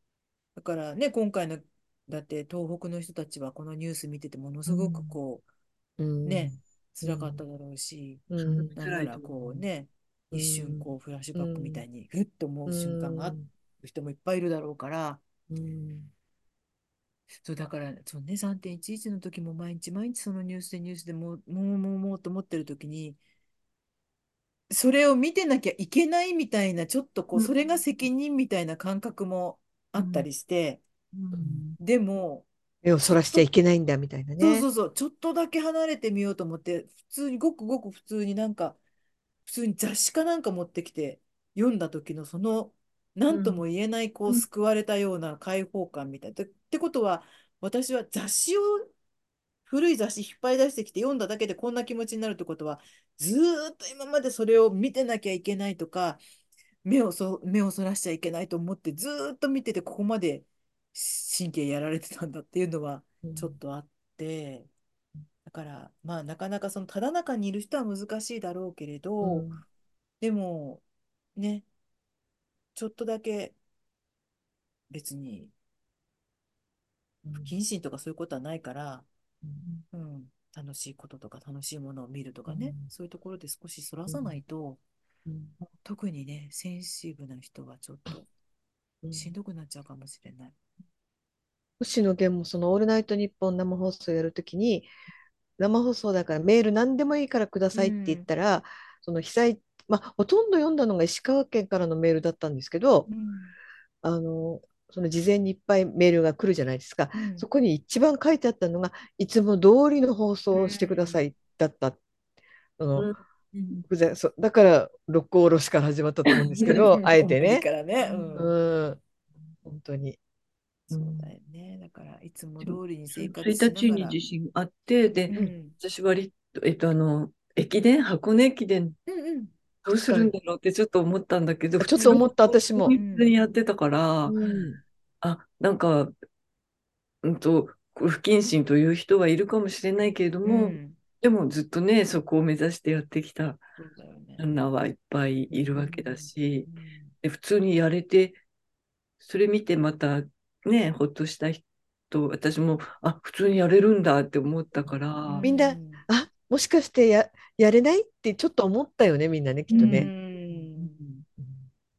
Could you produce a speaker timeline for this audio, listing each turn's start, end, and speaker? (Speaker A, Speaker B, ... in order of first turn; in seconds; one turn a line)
Speaker A: 0.6-5.4
Speaker B: 4.7-5.1
Speaker B: 6.0-7.4
Speaker A: 6.2-15.2
Speaker B: 8.3-8.7
Speaker C: 8.4-9.6
Speaker B: 10.3-11.8
Speaker B: 12.7-13.5
Speaker B: 15.5-16.1
Speaker A: 17.4-23.2
Speaker A: 24.7-30.8
Speaker C: 30.0-30.3
Speaker C: 31.1-31.8
Speaker B: 31.3-31.6
Speaker A: 31.8-32.5
Speaker B: 32.8-34.7
Speaker A: 34.4-38.8
Speaker A: 39.5-48.9
Speaker C: 43.3-43.6
Speaker A: 49.7-56.2
Speaker A: 56.8-64.7
Speaker B: 63.2-63.6
Speaker A: 65.4-69.6
Speaker B: 69.2-69.6
Speaker A: 70.2-70.8
Speaker A: 71.3-71.7
Speaker A: 72.7-73.5
Speaker A: 74.9-75.5
Speaker B: 77.2-77.5
Speaker A: 77.3-79.1
Speaker A: 79.9-84.8
Speaker B: 82.5-82.8
Speaker B: 84.1-84.3
Speaker B: 85.2-85.5
Speaker A: 85.8-88.3
Speaker B: 89.0-89.3
Speaker A: 89.1-90.5
Speaker B: 91.8-94.9
Speaker B: 95.6-103.1
Speaker A: 97.7-98.3
Speaker A: 103.1-103.5
Speaker B: 104.0-112.0
Speaker A: 107.1-107.5
Speaker A: 110.5-111.2
Speaker B: 112.8-113.1
Speaker C: 113.0-113.8
Speaker B: 113.9-117.7
Speaker A: 116.6-118.5
Speaker C: 116.6-117.0
Speaker C: 118.0-118.3
Speaker B: 118.3-119.0
Speaker B: 119.6-120.2
Speaker A: 120.9-124.2
Speaker C: 120.9-121.3
Speaker C: 122.6-129.0
Speaker A: 125.3-125.8
Speaker A: 129.1-129.5
Speaker C: 129.8-134.4
Speaker B: 129.9-130.3
Speaker B: 131.8-132.9
Speaker A: 132.0-132.2
Speaker A: 132.9-133.5
Speaker B: 134.2-134.8
Speaker A: 134.4-134.7
Speaker C: 135.2-136.1
Speaker C: 137.2-143.6
Speaker A: 140.4-141.0
Speaker A: 143.8-144.5
Speaker C: 144.4-146.7
Speaker A: 145.5-147.1
Speaker C: 147.2-148.4
Speaker C: 149.2-155.4
Speaker A: 155.3-156.0
Speaker B: 155.4-160.1
Speaker A: 159.7-161.1
Speaker C: 159.7-160.1